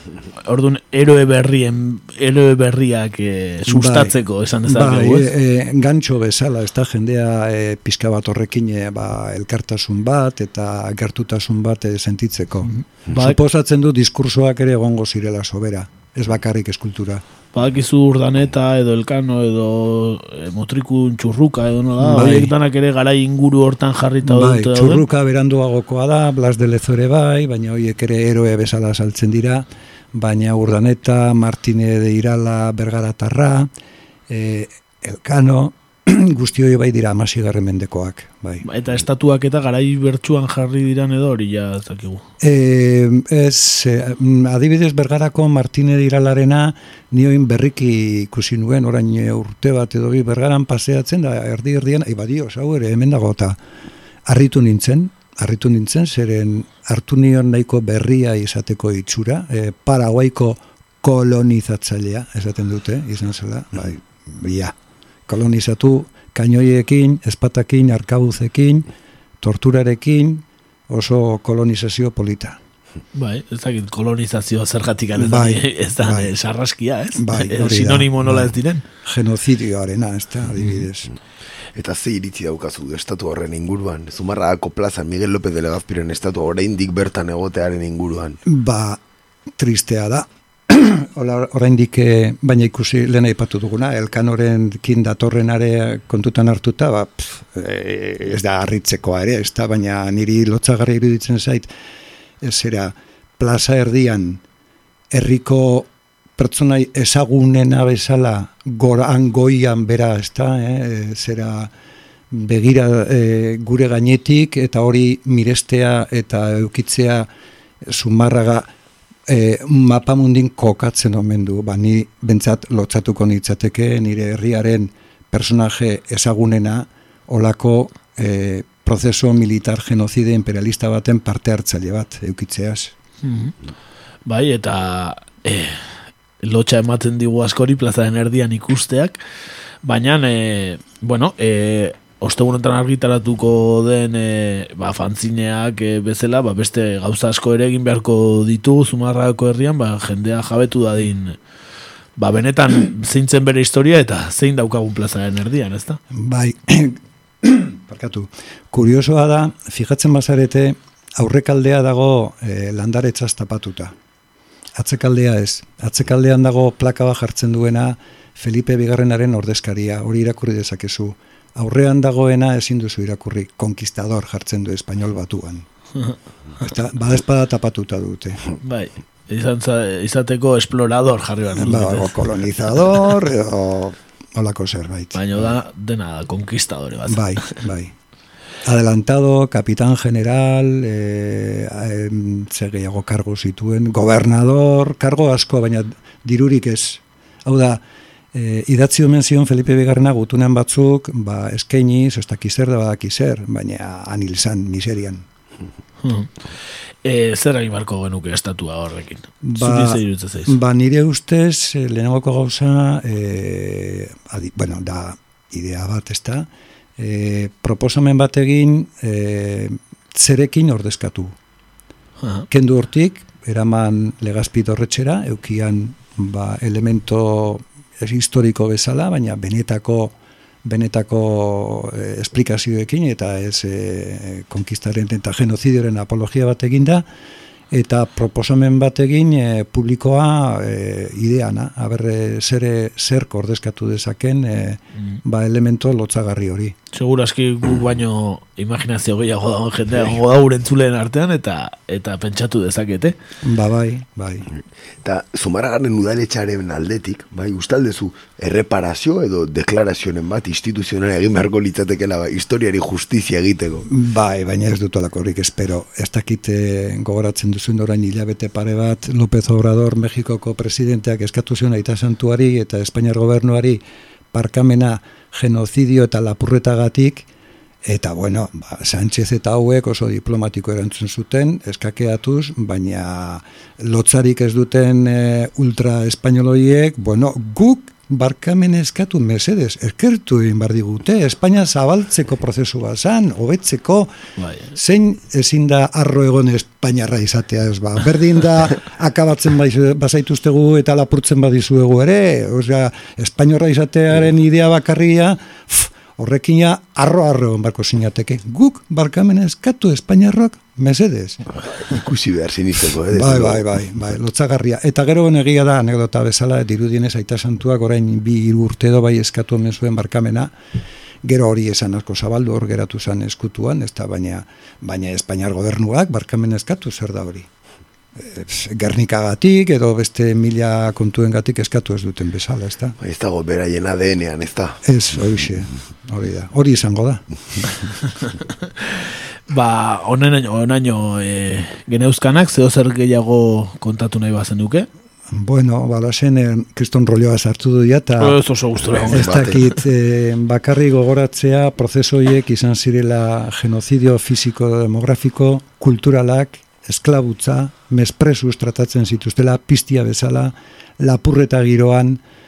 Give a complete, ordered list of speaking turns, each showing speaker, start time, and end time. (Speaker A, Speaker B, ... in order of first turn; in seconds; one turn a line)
Speaker A: 0.4-5.3
Speaker B: 3.6-4.1
Speaker B: 4.7-17.2
Speaker A: 12.6-13.4
Speaker A: 17.5-25.0
Speaker B: 22.0-22.5
Speaker B: 24.2-33.7
Speaker B: 34.3-38.6
Speaker A: 38.6-42.2
Speaker B: 42.4-53.6
Speaker B: 54.2-64.7
Speaker B: 65.3-68.9
Speaker B: 69.4-72.6
Speaker A: 73.1-78.8
Speaker B: 75.2-76.3
Speaker B: 77.2-81.1
Speaker C: 81.7-88.4
Speaker B: 88.4-89.0
Speaker B: 89.6-101.7
Speaker B: 102.4-104.4
Speaker B: 105.1-111.7
Speaker B: 112.3-117.3
Speaker B: 117.9-118.7
Speaker B: 119.3-132.9
Speaker A: 133.2-133.6
Speaker A: 134.2-139.2
Speaker A: 139.8-151.3
Speaker A: 152.2-156.0
Speaker B: 156.1-163.9
Speaker B: 164.8-175.6
Speaker B: 176.6-178.4
Speaker A: 178.6-182.2
Speaker B: 181.6-185.2
Speaker A: 185.1-187.3
Speaker B: 187.1-187.9
Speaker B: 188.6-197.8
Speaker B: 198.3-205.2
Speaker A: 206.0-206.3
Speaker A: 207.0-210.5
Speaker B: 209.4-221.3
Speaker B: 222.5-237.0
Speaker B: 237.7-246.7
Speaker A: 246.9-253.1
Speaker B: 253.4-254.5
Speaker C: 255.0-263.9
Speaker B: 263.9-277.3
Speaker B: 277.8-294.1
Speaker A: 294.4-294.7
Speaker B: 294.7-311.4
Speaker C: 311.6-313.6
Speaker B: 313.1-320.5
Speaker B: 321.2-327.5
Speaker B: 328.1-332.9
Speaker C: 333.0-334.8
Speaker B: 334.8-337.2
Speaker A: 338.8-344.9
Speaker B: 345.3-348.4
Speaker A: 348.2-349.6
Speaker C: 348.9-349.6
Speaker B: 349.1-362.2